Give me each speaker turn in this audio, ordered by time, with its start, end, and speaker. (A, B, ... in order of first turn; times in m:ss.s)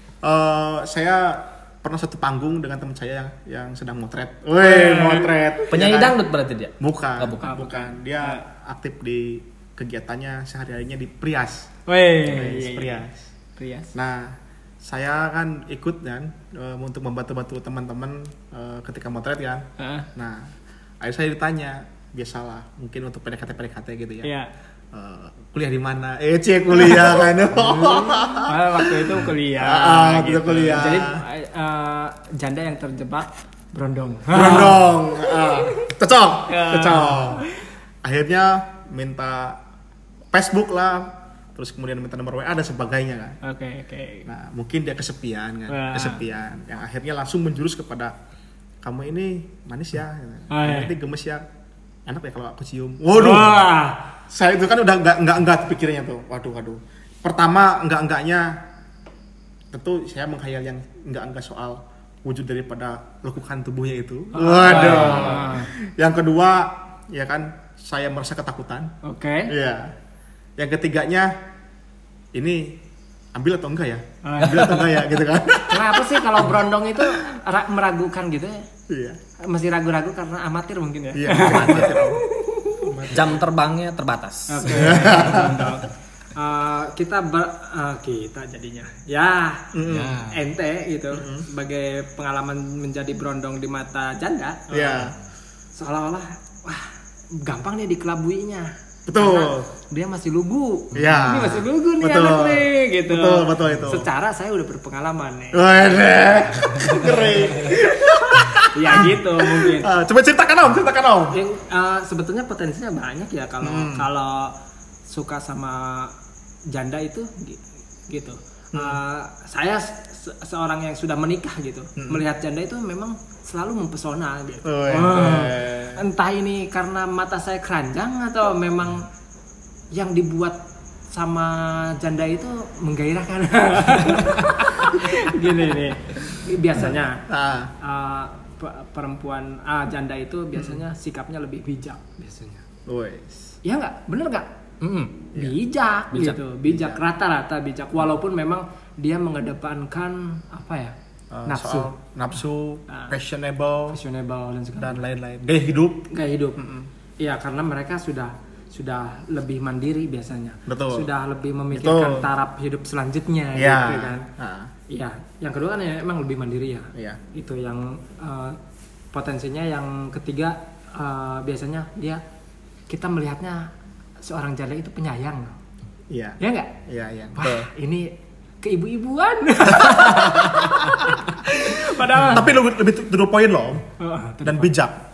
0:00.2-0:06.2 A
0:04.6-0:05.4 B
0:05.7-0:07.7 C
0:06.8-0:11.7 A
0:07.4-0:08.4 B
0:11.9-0:13.0 B
0:12.2-0:13.3 A
0:13.6-0:13.9 B
0:13.9-0:24.3 A
0:19.8-0:20.1 B
0:24.2-0:24.5 B
0:24.9-0:31.2 A
0:27.5-0:34.8 B
0:34.3-0:37.5 A
0:35.4-0:35.8 B
0:36.5-0:37.6 B
0:38.0-0:39.6 A
0:40.3-0:43.4 A
0:43.4-0:44.3 B
0:44.3-0:48.1 A
0:45.7-0:46.2 B
0:48.8-0:51.4 A
0:50.5-0:50.9 B
0:52.1-0:53.7 A
0:53.2-0:54.0 B
0:54.3-0:58.6 A
0:59.7-1:08.9 A
1:04.3-1:05.7 B
1:04.7-1:05.5 C
1:09.0-1:09.5 B
1:09.5-1:09.9 A
1:10.6-1:11.3 A
1:12.3-1:12.8 A
1:13.4-1:16.4 A
1:14.2-1:14.8 B
1:14.4-1:15.0 C
1:15.7-1:18.7 B
1:18.9-1:19.2 A
1:19.4-1:23.1 B
1:21.1-1:22.2 A
1:22.8-1:23.4 A
1:23.1-1:25.2 C
1:24.5-1:29.7 B
1:24.7-1:25.8 A
1:29.7-1:30.2 A
1:29.8-1:30.4 C
1:30.3-1:35.0 B
1:31.1-1:31.5 A
1:34.7-1:35.2 A
1:35.8-1:45.9 B
1:39.1-1:39.7 A
1:41.0-1:44.1 A
1:45.5-1:51.4 A
1:48.6-1:49.9 B
1:51.3-1:54.5 B
1:53.6-1:54.1 A
1:55.1-1:56.2 B
1:56.7-2:09.1 B
1:58.7-1:59.0 A
2:02.0-2:02.2 A
2:04.6-2:06.0 A
2:09.9-2:10.6 B
2:11.1-2:17.2 B
2:17.3-2:17.7 A
2:17.8-2:22.6 B
2:20.6-2:20.8 A
2:22.9-2:23.6 A
2:23.6-2:24.5 B
2:24.8-2:25.3 C
2:25.4-2:31.0 B
2:26.1-2:26.4 C
2:26.6-2:27.0 A
2:31.3-2:34.0 A
2:31.5-2:31.9 B
2:32.9-2:33.2 B
2:33.9-2:35.0 B
2:34.8-2:36.1 A
2:36.1-2:36.6 B
2:36.6-2:36.9 A
2:37.2-2:44.3 B
2:40.7-2:41.1 A
2:41.7-2:42.3 A
2:43.6-2:44.7 A
2:44.9-2:48.6 B
2:47.0-2:47.2 A
2:49.1-2:52.2 B
2:52.9-2:53.7 B
2:54.2-2:55.6 B
2:56.1-2:57.7 A
2:56.4-2:56.8 B
2:57.3-3:02.6 B
2:59.8-3:01.0 A
3:01.7-3:03.8 A
3:04.0-3:04.7 B
3:04.4-3:05.0 A